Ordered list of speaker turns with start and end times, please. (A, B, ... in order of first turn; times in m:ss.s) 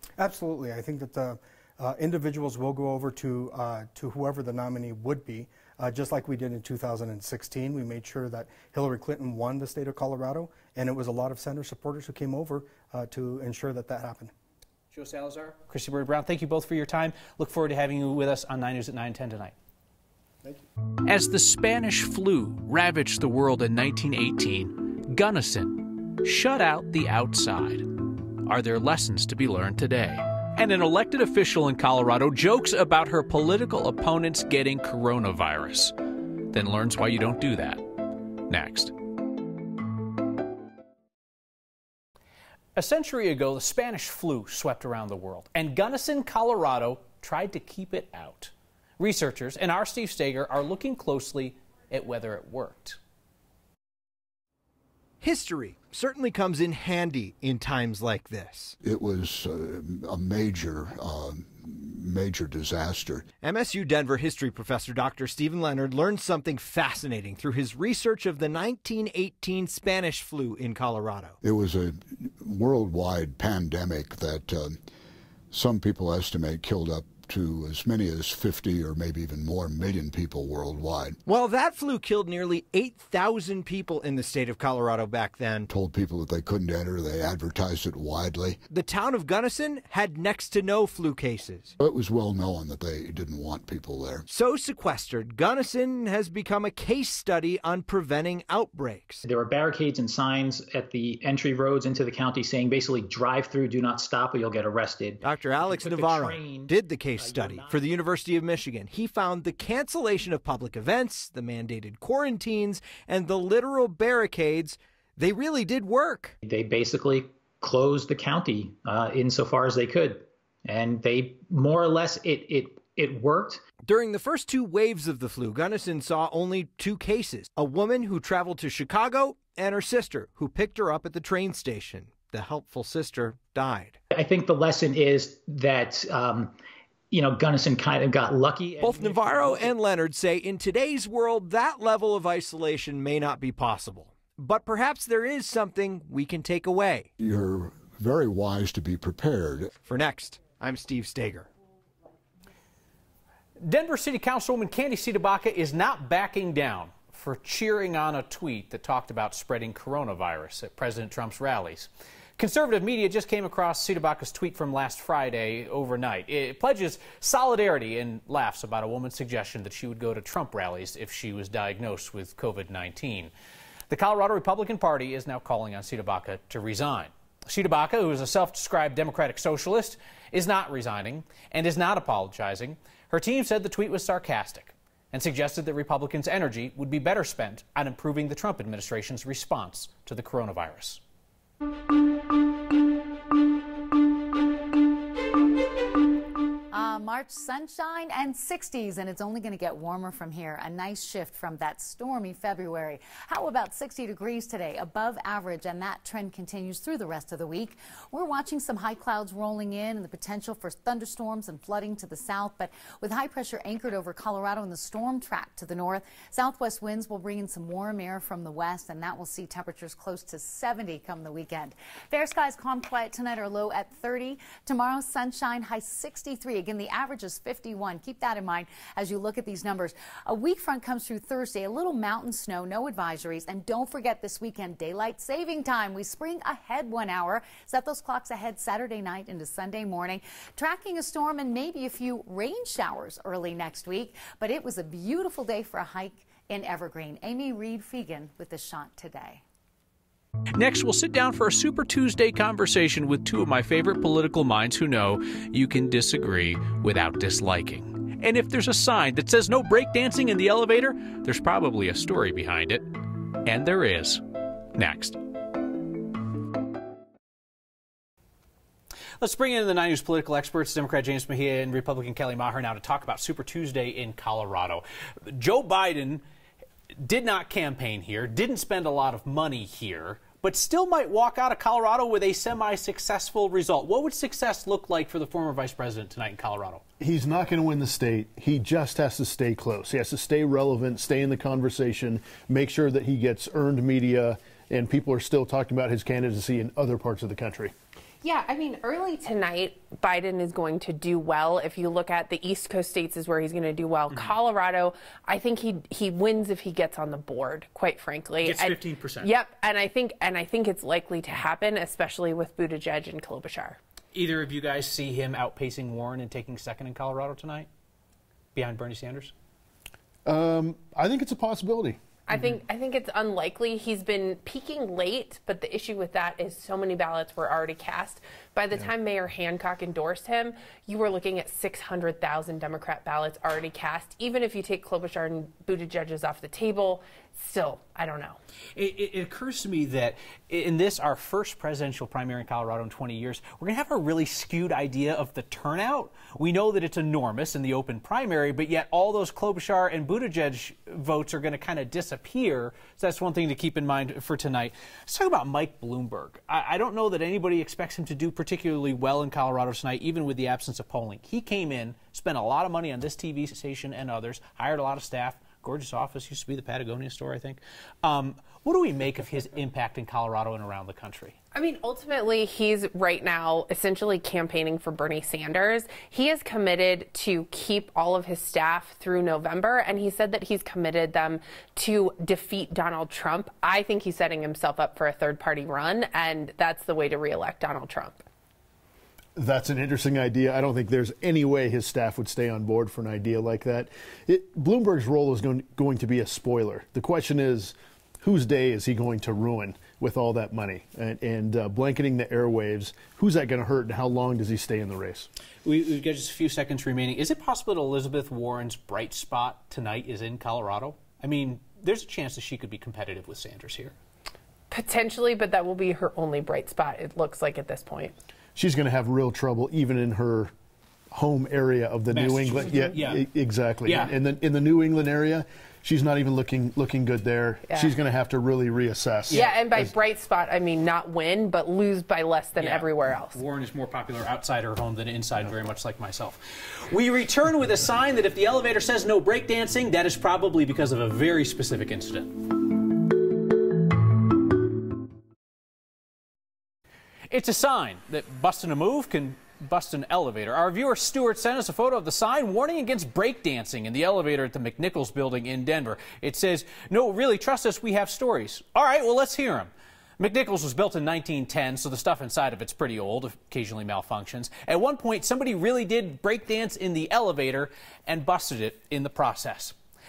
0:00.2-0:14.3 A
0:14.9-0:19.5 B
0:21.0-0:35.9 B
0:36.4-0:38.9 B
0:42.8-0:53.0 B
0:55.2-0:58.8 C
0:58.8-1:03.2 D
1:03.4-1:11.4 C
1:11.4-1:14.8 D
1:15.5-1:21.2 D
1:21.3-1:25.7 C
1:25.7-1:28.6 D
1:28.7-1:31.7 C
1:31.8-1:34.2 D
1:34.3-1:39.2 C
1:39.2-1:48.0 E
1:45.2-1:56.3 C
1:56.4-2:03.6 E
2:03.8-2:14.0 C
2:14.1-2:16.5 E
2:17.1-2:19.7 E
2:18.8-2:27.1 C
2:27.2-2:29.7 D
2:29.8-2:31.5 C
2:33.6-2:53.3 B
2:53.9-3:11.0 B
3:16.7-4:09.4 F
4:10.6-4:22.8 B
4:23.4-4:24.2 B
4:24.8-4:25.2 B
4:29.2-4:36.2 B
4:37.0-4:46.8 B
4:47.0-4:57.7 G
4:58.2-5:13.8 H
5:04.1-5:04.3 B
5:08.4-5:09.3 B
5:14.1-5:17.7 B
5:18.5-5:19.3 B
5:20.2-5:22.5 G
5:22.3-5:38.4 H
5:38.8-6:11.4 B
6:11.5-6:28.2 H
6:29.4-6:45.3 G
6:45.6-6:53.9 B
6:54.7-6:58.1 H
6:58.6-7:00.5 G
7:01.1-7:10.0 G
7:02.1-7:03.2 B
7:03.8-7:04.1 B
7:07.7-7:07.9 H
7:09.3-7:09.6 B
7:09.4-7:13.4 H
7:12.6-7:22.5 B
7:27.3-7:49.8 B